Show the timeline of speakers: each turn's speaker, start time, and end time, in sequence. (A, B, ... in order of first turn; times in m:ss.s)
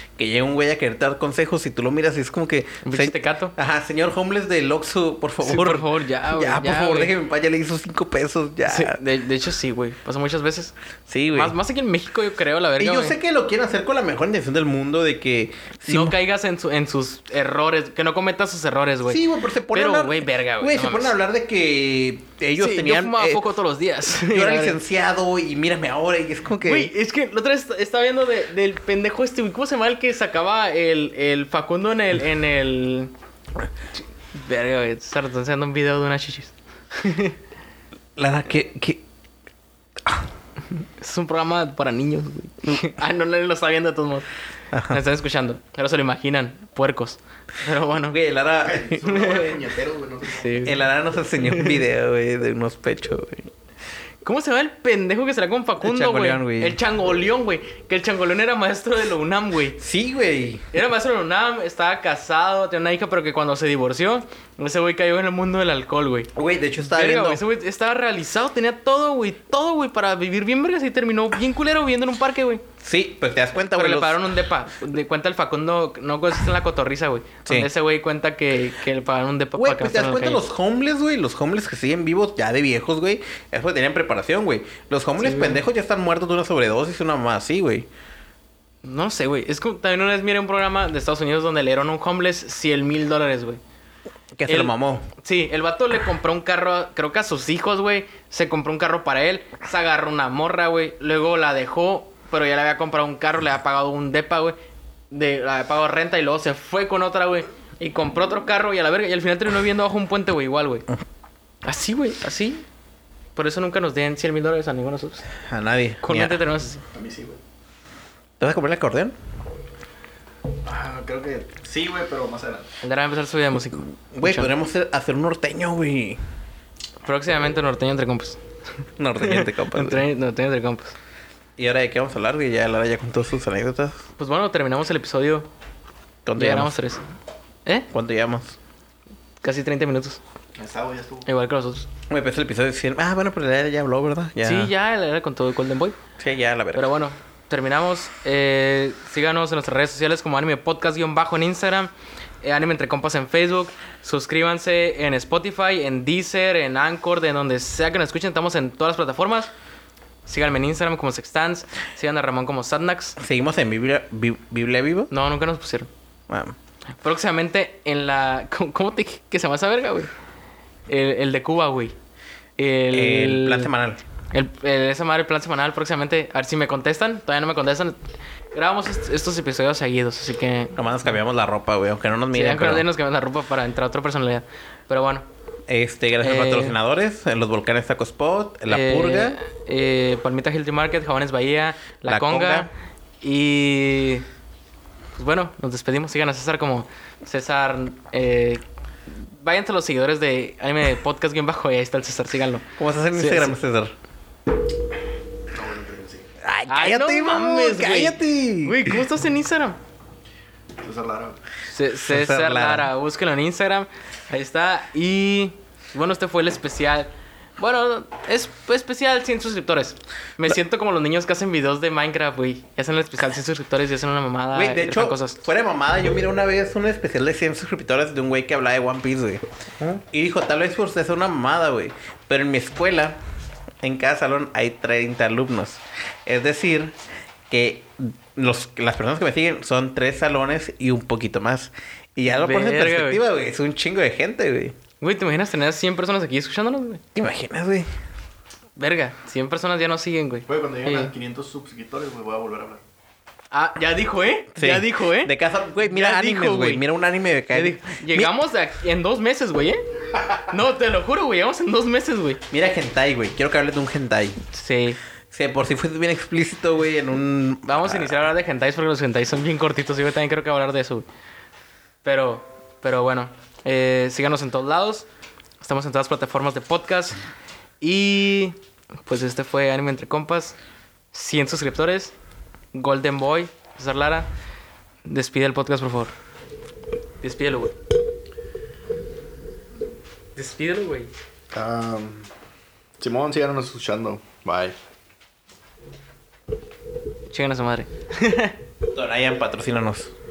0:00.2-0:09.0 A
0:02.8-0:03.6 B
0:05.4-0:07.1 B
0:08.7-0:10.7 B
0:11.1-0:11.5 A
0:11.3-0:13.2 B
0:12.8-0:16.2 A
0:15.9-0:21.2 B
0:19.0-0:23.5 A
0:22.6-0:24.8 B
0:24.1-0:26.9 A
0:26.6-0:33.1 B
0:34.4-0:37.4 B
0:38.2-0:39.0 A
0:41.0-0:44.3 B
0:44.7-0:45.0 A
0:44.9-0:48.2 B
0:48.1-0:49.0 A
0:48.6-0:50.8 C
0:49.1-0:49.6 B
0:50.3-0:50.8 B
0:50.6-0:53.5 A
0:51.4-0:51.8 B
0:54.2-0:59.8 B
0:55.8-0:56.8 A
0:59.8-1:00.7 A
1:00.7-1:06.3 B
1:06.4-1:07.4 A
1:06.8-1:12.6 B
1:12.8-1:14.3 A
1:13.7-1:20.4 B
1:19.6-1:27.9 A
1:25.2-1:25.6 B
1:28.8-1:33.6 B
1:34.3-1:35.1 A
1:34.5-1:44.6 B
1:45.1-1:50.9 B
1:51.6-1:52.6 B
1:53.4-1:55.3 B
1:55.5-1:56.4 A
1:56.0-1:56.8 B
1:56.9-1:57.4 C
1:58.4-1:59.2 A
2:00.6-2:02.7 C
2:02.8-2:04.5 B
2:04.1-2:06.2 A
2:07.0-2:08.4 B
2:09.0-2:10.0 A
2:09.2-2:11.0 B
2:11.6-2:14.0 A
2:14.2-2:15.5 B
2:16.3-2:16.7 A
2:16.4-2:17.0 B
2:17.9-2:18.6 A
2:19.4-2:20.2 B
2:20.6-2:21.3 C
2:21.3-2:21.9 B
2:22.1-2:24.7 A
2:24.4-2:26.0 B
2:26.2-2:26.9 A
2:26.7-2:39.5 B
2:40.3-2:43.2 B
2:43.2-2:45.1 A
2:45.1-2:45.9 B
2:46.3-2:46.6 A
2:47.0-2:50.1 B
2:50.9-2:52.0 B
2:52.6-2:53.7 B
2:52.9-2:54.0 A
2:54.3-2:58.0 B
2:58.5-3:00.8 B
3:00.8-3:02.9 A
3:02.3-3:05.3 B
3:05.7-3:09.4 A
3:06.2-3:06.8 B
3:08.7-3:12.7 B
3:12.1-3:12.7 A
3:13.2-3:14.3 B
3:15.2-3:23.6 B
3:22.8-3:24.0 A
3:25.5-3:26.3 C
3:26.4-3:29.0 A
3:26.7-3:29.8 B
3:30.8-3:31.4 C
3:31.6-3:45.4 B
3:32.0-3:32.9 A
3:44.5-3:53.2 A
3:53.8-3:57.0 A
3:57.5-4:04.8 A
4:02.3-4:03.2 B
4:05.0-4:07.0 B
4:07.2-4:07.9 A
4:08.8-4:11.1 B
4:10.5-4:12.8 C
4:13.5-4:16.8 B
4:14.6-4:18.4 A
4:17.5-4:22.4 B
4:22.5-4:24.4 A
4:24.5-4:25.0 B
4:25.3-4:28.2 A
4:27.7-4:31.1 B
4:32.0-4:35.1 B
4:35.6-4:37.2 B
4:37.8-4:40.6 B
4:41.1-4:42.1 B
4:42.7-4:44.3 B
4:45.1-4:46.1 B
4:47.2-4:47.8 B
4:50.4-4:51.1 B
4:51.5-4:52.3 C
4:53.0-4:54.8 C
4:57.3-4:58.6 B
4:58.9-5:00.1 A